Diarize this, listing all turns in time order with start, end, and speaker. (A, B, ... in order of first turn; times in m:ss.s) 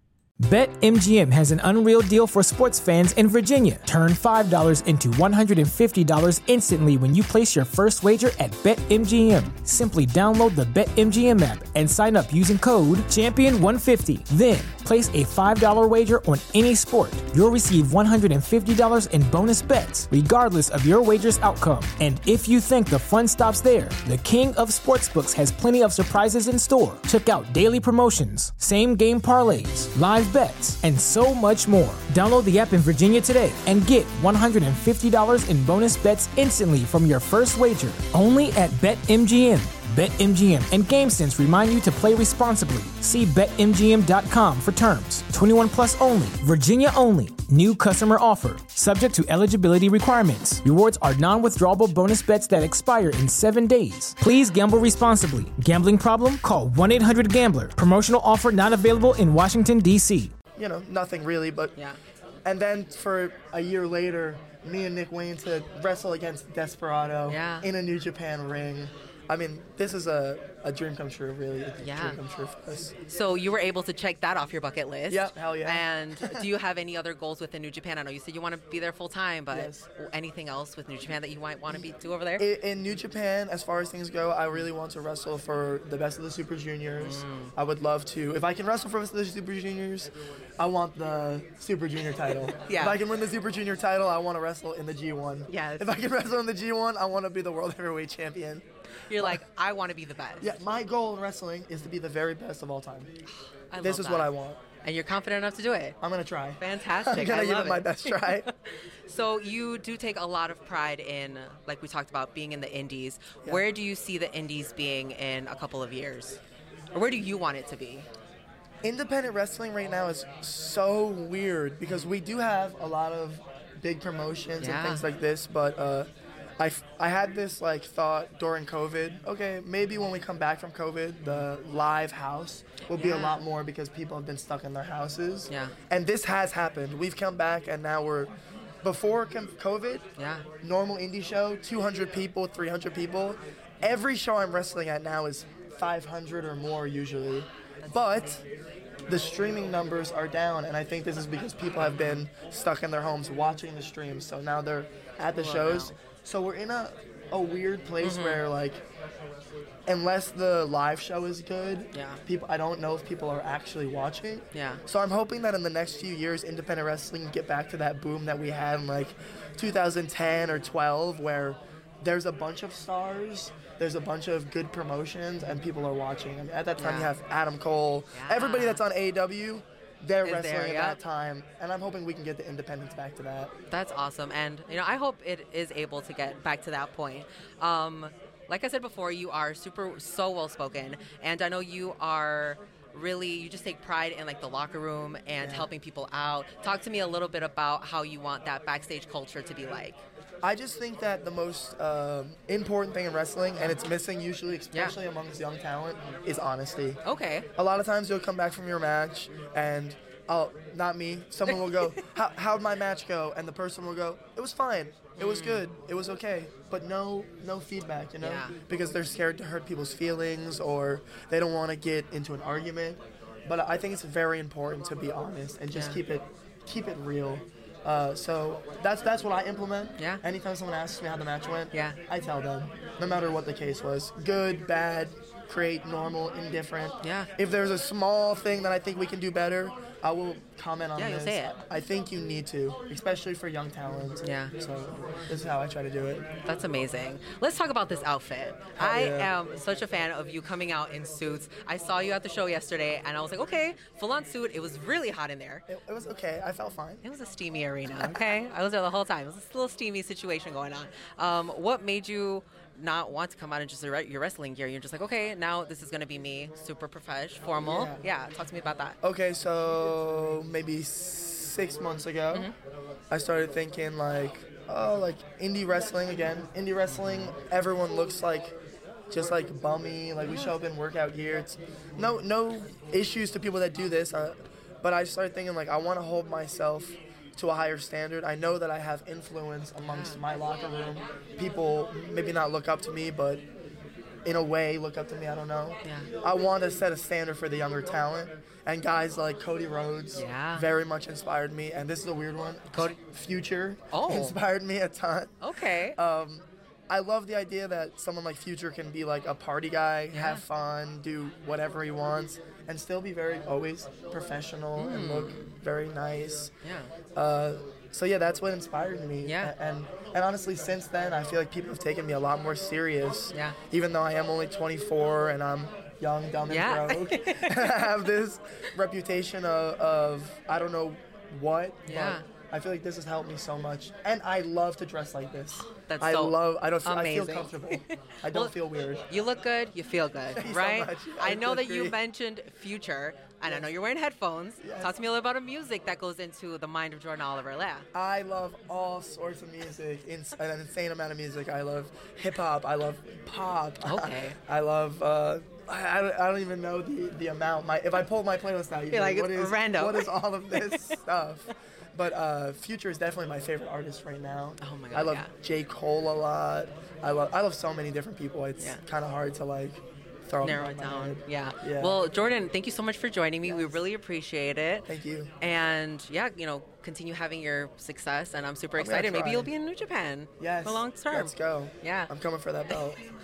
0:00.4-1:00.3 A
1:00.6-1:01.8 B
1:02.4-1:12.9 B
1:07.3-1:07.7 C
1:11.8-1:12.2 C
1:13.1-1:22.4 C
1:15.1-1:16.5 B
1:19.5-1:19.8 B
1:21.7-1:38.6 B
1:27.0-1:27.5 C
1:32.6-1:33.0 C
1:35.5-1:36.1 C
1:39.1-1:40.4 C
1:39.2-1:39.4 B
1:40.4-1:43.1 B
1:43.7-1:44.3 C
1:43.8-1:44.6 B
1:44.8-1:46.0 C
1:46.0-1:48.5 B
1:46.6-1:48.5 C
1:49.0-1:56.4 C
1:56.9-1:58.1 C
1:58.8-2:06.1 B
2:01.8-2:02.1 C
2:04.6-2:05.0 C
2:06.6-2:20.0 B
2:12.9-2:13.4 C
2:20.2-2:20.4 C
2:20.6-2:28.4 B
2:27.8-2:28.4 C
2:29.1-2:38.8 B
2:31.9-2:32.2 C
2:35.3-2:35.9 C
2:38.0-2:38.4 C
2:39.9-3:03.5 B
2:41.9-2:42.2 C
2:44.5-2:44.8 C
2:56.8-2:57.1 C
2:58.1-2:58.8 C
3:00.2-3:01.0 C
3:03.7-3:20.0 C
3:15.4-3:15.7 B
3:20.4-3:27.0 B
3:27.0-3:27.4 C
3:27.6-4:06.3 B
3:31.5-3:31.9 C
3:35.2-3:35.7 C
3:38.2-3:38.6 C
3:45.7-3:46.0 C
3:57.0-3:57.3 C
4:01.0-4:01.5 C
4:04.2-4:04.5 C
4:06.4-4:15.6 C
4:08.8-4:09.3 B
4:15.7-4:17.0 B
4:17.0-4:29.0 C
4:17.8-4:18.3 B
4:27.6-4:28.0 B
4:29.0-4:32.5 B
4:33.1-4:38.5 B
4:36.9-4:37.3 C
4:39.1-4:53.4 B
4:40.2-4:40.5 C
4:49.8-4:50.2 C
4:54.2-5:05.3 B
5:00.2-5:00.7 C
5:03.9-5:04.4 C
5:05.4-5:06.0 C
5:06.0-5:16.5 B
5:10.1-5:10.4 C
5:14.8-5:15.5 C
5:16.6-5:16.9 C
5:17.1-5:39.0 B
5:19.2-5:19.5 C
5:26.5-5:27.9 C
5:31.8-5:32.2 C
5:35.7-5:38.5 C
5:39.1-5:47.8 C
5:40.3-5:42.0 B
5:43.4-5:43.7 B
5:44.6-5:44.9 B
5:47.9-6:12.1 B
5:53.8-5:54.4 C
5:58.9-6:01.0 C
6:04.6-6:05.3 C
6:10.4-6:14.9 C
6:13.4-6:13.8 B
6:14.9-6:15.3 B
6:15.4-6:22.1 C
6:18.8-6:19.5 B
6:20.4-6:23.0 B